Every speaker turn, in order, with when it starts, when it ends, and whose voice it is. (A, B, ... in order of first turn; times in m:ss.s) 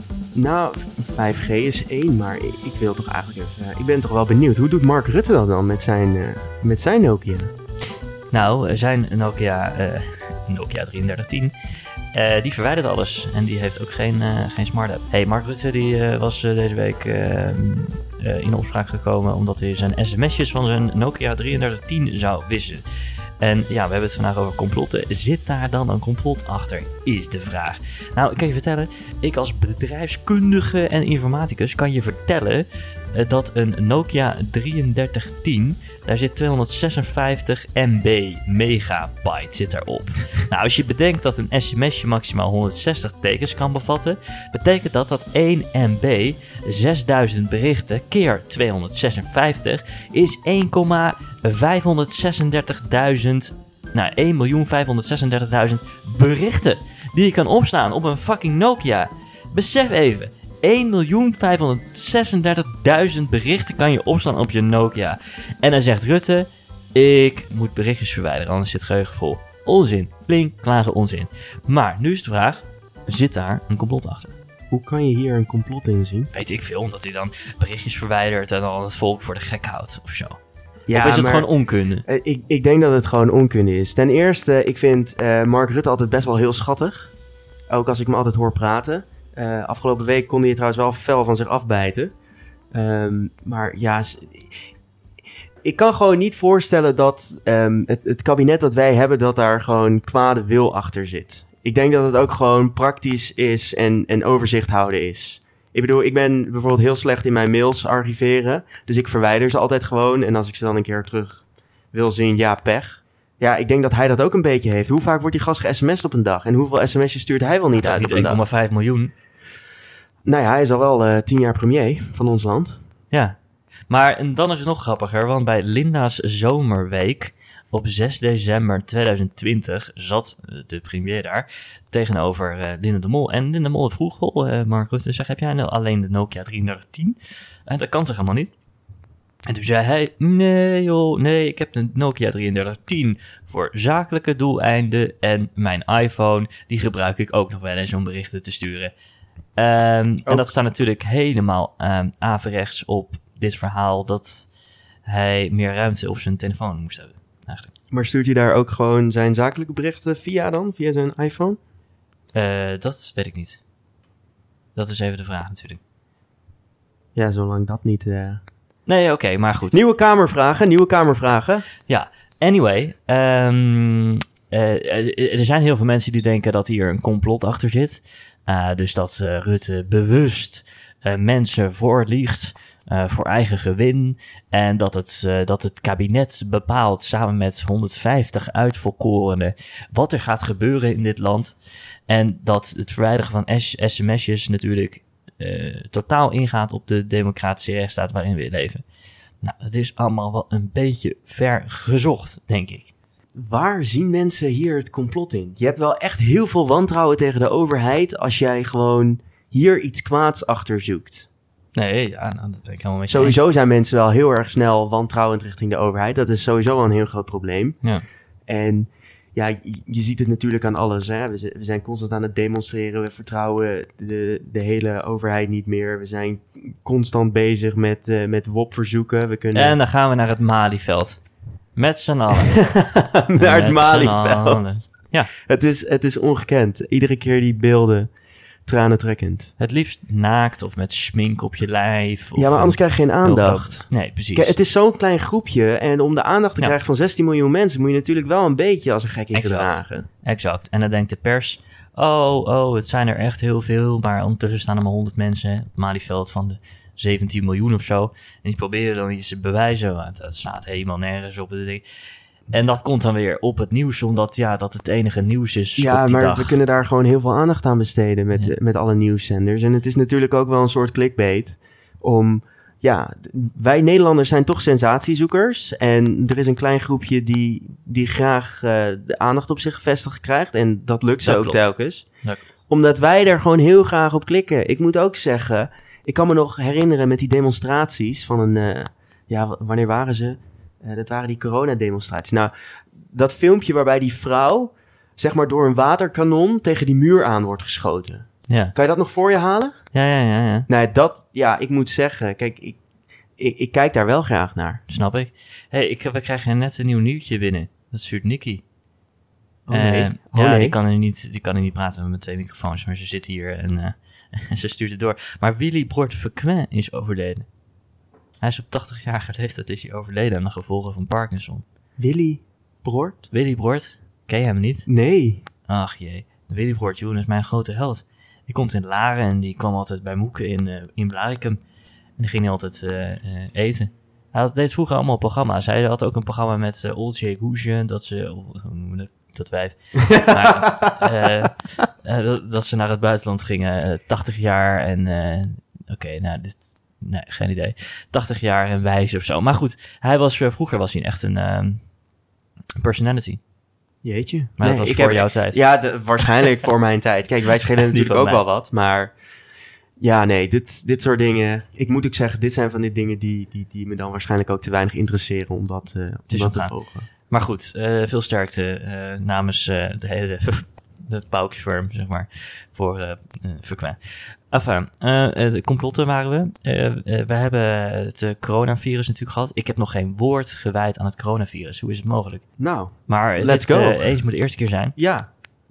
0:00.3-0:07.5 A
0:08.3-0:11.5 B
0:12.1-0:22.8 B
0:23.4-1:14.3 B
1:14.7-1:16.3 A
1:16.3-1:20.4 B
1:20.9-1:21.5 A
1:20.9-1:22.0 B
1:22.0-1:27.1 A
1:27.7-1:32.1 A
1:32.7-1:34.7 A
1:35.6-1:58.4 A
1:57.8-1:59.1 B
2:00.2-2:02.8 A
2:03.1-2:18.5 B
2:19.5-2:28.9 B
2:29.6-2:34.5 B
2:30.2-2:30.5 A
2:35.0-2:37.7 B
2:37.9-2:41.6 A
2:42.3-2:43.6 B
2:44.7-2:45.8 B
2:47.1-2:48.4 A
2:48.8-2:49.8 B
2:49.7-2:51.7 A
2:51.9-3:11.5 B
3:12.1-3:18.8 B
3:19.4-3:22.9 B
3:23.3-3:31.3 A
3:31.7-3:33.4 B
3:33.1-3:37.8 A
3:38.5-3:49.8 A
3:49.5-3:51.2 B
3:51.8-3:52.8 B
3:52.6-3:58.1 A
3:53.3-3:55.3 B
3:58.6-3:59.5 A
3:59.6-4:04.6 B
4:02.4-4:10.1 A
4:09.3-4:21.8 B
4:22.5-4:26.6 B
4:25.8-4:42.1 A
4:41.2-4:41.7 B
4:42.7-4:52.5 A
4:53.1-4:59.9 A
4:58.5-4:58.7 B
4:59.9-5:00.7 B
5:00.7-5:02.8 A
5:03.4-5:04.8 A
5:04.9-5:08.6 B
5:09.7-5:10.8 A
5:09.7-5:17.5 B
5:18.4-5:21.6 B
5:22.0-5:23.3 A
5:23.3-5:24.9 B
5:24.9-5:25.4 A
5:25.7-5:31.6 B
5:32.2-5:51.9 B
5:40.2-5:40.9 A
5:52.8-5:53.4 B
5:54.0-5:59.1 A
5:54.6-5:56.0 B
5:57.9-5:58.4 B
6:00.0-6:07.1 A
6:06.3-6:22.4 B
6:22.6-6:24.1 A
6:23.1-6:25.0 B
6:25.0-6:25.3 A